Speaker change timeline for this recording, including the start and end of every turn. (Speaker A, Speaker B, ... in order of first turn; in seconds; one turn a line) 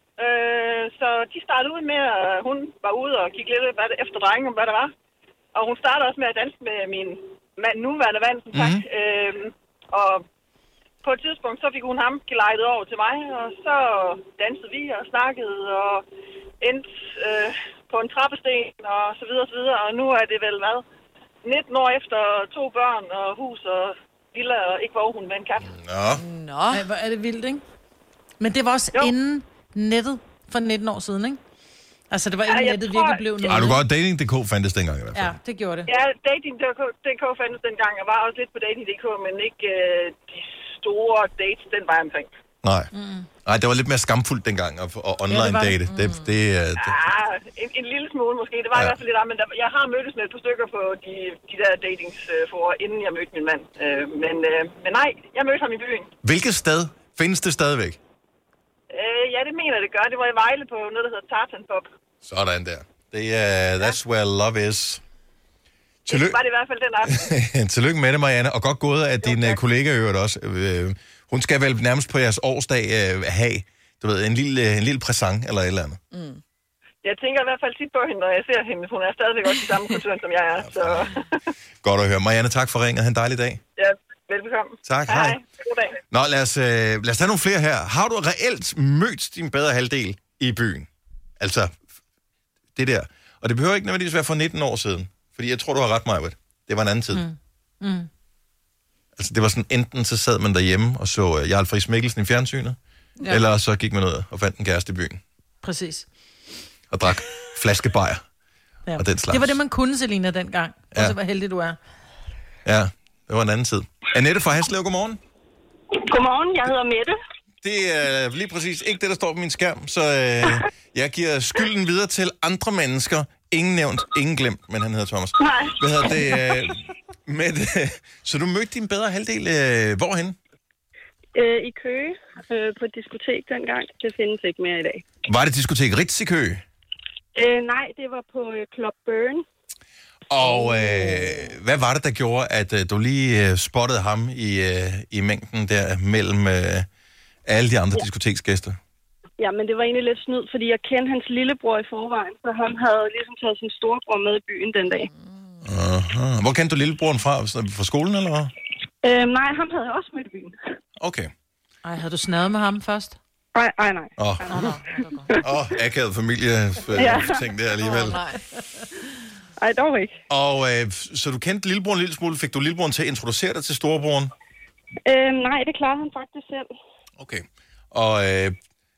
Speaker A: 0.2-4.9
Speaker A: 5.5-10.2
Speaker B: 8.5-8.8
Speaker A: 11.0-16.0
Speaker A: 16.6-20.8
Speaker A: 21.4-25.7
Speaker B: 25.6-26.2
Speaker C: 26.1-26.8
Speaker D: 26.7-27.6
Speaker D: 28.4-31.4
Speaker D: 32.1-33.8
Speaker A: 32.5-33.7
Speaker B: 33.4-35.4
Speaker D: 35.1-35.9
Speaker A: 35.9-42.3
Speaker B: 42.6-42.9
Speaker D: 42.9-43.3
Speaker B: 43.4-47.0
Speaker D: 45.3-45.8
Speaker C: 45.9-46.2
Speaker A: 46.8-56.1
Speaker B: 56.2-58.0
Speaker A: 58.9-61.9
Speaker B: 62.2-65.0
Speaker B: 66.0-66.4
Speaker A: 66.1-67.3
Speaker B: 67.0-76.0
Speaker A: 69.2-69.6
Speaker C: 76.1-76.4
Speaker A: 77.0-81.3
Speaker B: 80.6-81.1
Speaker B: 81.8-83.6
Speaker A: 83.8-86.0
Speaker B: 84.8-85.4
Speaker B: 86.1-90.9
Speaker B: 91.4-91.7
Speaker B: 92.7-97.2
Speaker D: 97.1-98.1
Speaker B: 99.2-105.2
Speaker D: 105.6-106.1
Speaker B: 106.9-108.2
Speaker D: 108.8-111.8
Speaker B: 109.0-109.6
Speaker B: 112.6-115.2
Speaker E: 115.9-117.2
Speaker B: 117.6-130.3
Speaker E: 125.4-126.6
Speaker E: 131.3-135.0
Speaker B: 135.3-136.6
Speaker E: 137.3-139.4
Speaker B: 140.3-146.9
Speaker E: 140.4-141.5
Speaker B: 147.4-148.8
Speaker E: 149.4-155.1
Speaker C: 155.0-155.7
Speaker B: 155.6-158.5
Speaker E: 159.0-160.5
Speaker B: 161.0-161.3
Speaker D: 161.8-163.2
Speaker E: 163.5-164.7
Speaker B: 164.2-164.7
Speaker D: 164.5-165.3
Speaker E: 165.3-165.6
Speaker B: 165.4-168.2
Speaker E: 166.9-167.5
Speaker C: 167.8-168.4
Speaker E: 169.6-170.2
Speaker B: 170.3-174.3
Speaker E: 175.1-176.7
Speaker B: 177.2-178.6